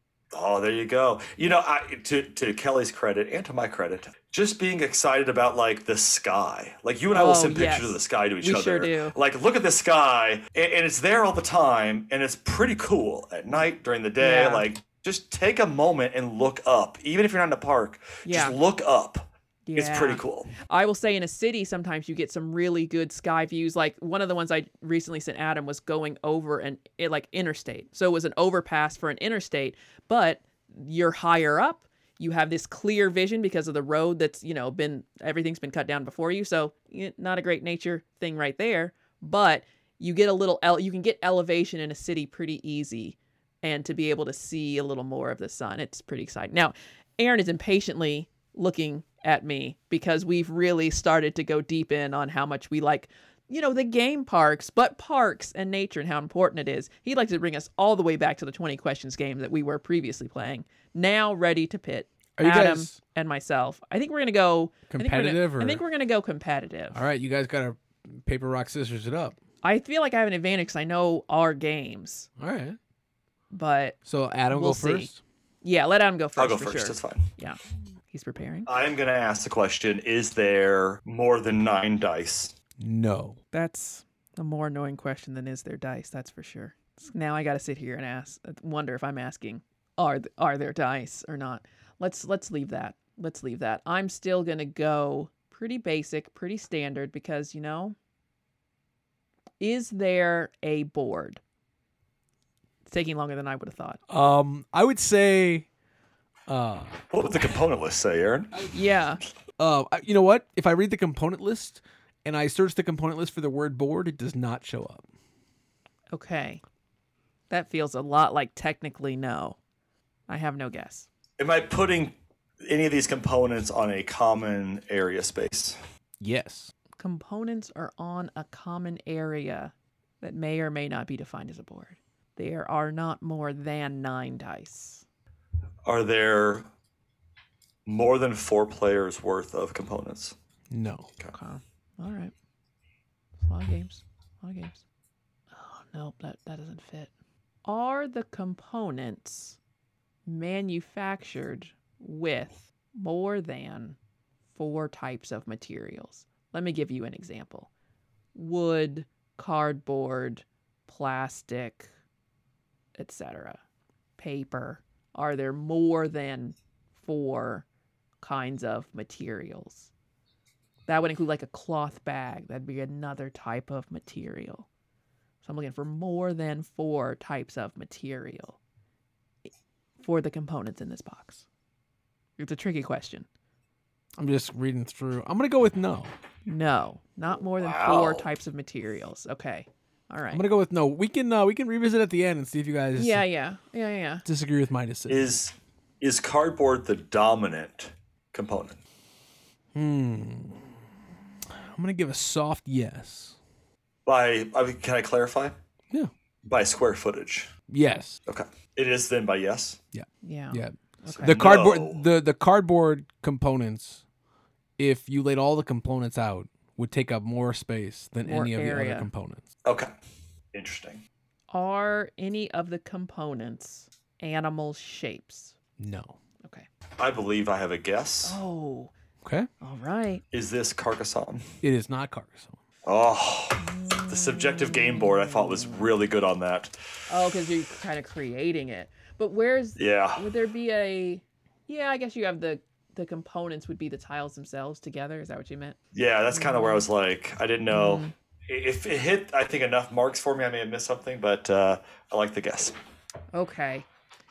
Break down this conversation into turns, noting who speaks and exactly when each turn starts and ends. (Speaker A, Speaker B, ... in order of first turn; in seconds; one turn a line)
Speaker A: 0.3-20.5
Speaker B: 7.1-9.1
Speaker B: 14.2-14.7
Speaker B: 18.2-18.6
Speaker B: 19.7-67.0
Speaker C: 62.4-63.0
Speaker C: 64.9-65.8
Speaker C: 66.9-69.4
Speaker B: 69.6-72.3
Speaker C: 72.4-72.8
Speaker B: 73.5-74.0
Speaker C: 74.1-75.2
Speaker B: 74.5-75.1
Speaker B: 75.6-77.6
Speaker A: 76.4-77.3
Speaker B: 78.1-78.7
Speaker A: 78.7-82.5
Speaker C: 82.8-83.4
Speaker B: 83.5-98.0
Speaker B: 99.6-101.4
Speaker B: 102.9-104.0
Speaker C: 104.1-105.7
Speaker C: 106.5-107.1
Speaker A: 107.1-108.7
Speaker B: 108.7-109.2
Speaker C: 109.6-115.0
Speaker B: 116.1-116.6
Speaker B: 117.5-119.6
Speaker B: 120.3-121.1
Speaker A: 121.4-125.8
Speaker C: 126.2-126.7
Speaker B: 127.0-135.0
Speaker A: 135.8-136.7
Speaker A: 137.9-140.3
Speaker C: 140.7-141.1
Speaker B: 141.3-142.3
Speaker B: 143.4-144.8
Speaker B: 145.5-147.1
Speaker B: 147.7-149.6
Speaker B: 150.3-154.0
Speaker B: 154.6-157.7
Speaker B: 158.3-161.9
Speaker B: 163.0-163.6
Speaker B: 164.2-167.7
Speaker B: 168.2-169.9
Speaker B: 170.9-174.7
Speaker B: 175.4-178.6
Speaker B: 180.0-181.4
Speaker B: 182.4-183.3
Speaker C: 184.2-186.1
Speaker B: 186.5-190.4
Speaker A: 187.6-188.3
Speaker C: 190.3-193.2
Speaker B: 193.0-194.2
Speaker C: 194.3-195.3
Speaker A: 195.1-198.8
Speaker C: 199.8-200.8
Speaker C: 201.5-203.4
Speaker A: 204.1-205.6
Speaker A: 206.4-207.5
Speaker C: 207.7-208.2
Speaker A: 208.3-209.8
Speaker C: 209.9-214.0
Speaker B: 210.2-211.4
Speaker A: 211.1-212.1
Speaker C: 214.8-219.4
Speaker B: 218.2-219.1
Speaker A: 219.7-219.9
Speaker A: 220.5-221.0
Speaker B: 221.5-225.5
Speaker C: 225.8-226.2
Speaker A: 227.0-228.4
Speaker B: 228.2-228.9
Speaker C: 229.2-229.5
Speaker B: 229.6-230.2
Speaker A: 230.3-231.5
Speaker C: 231.6-232.6
Speaker A: 232.8-236.7
Speaker B: 233.6-235.9
Speaker B: 237.1-245.8
Speaker A: 239.8-240.2
Speaker A: 245.9-252.8
Speaker B: 246.3-246.8
Speaker B: 247.7-248.1
Speaker B: 253.3-253.9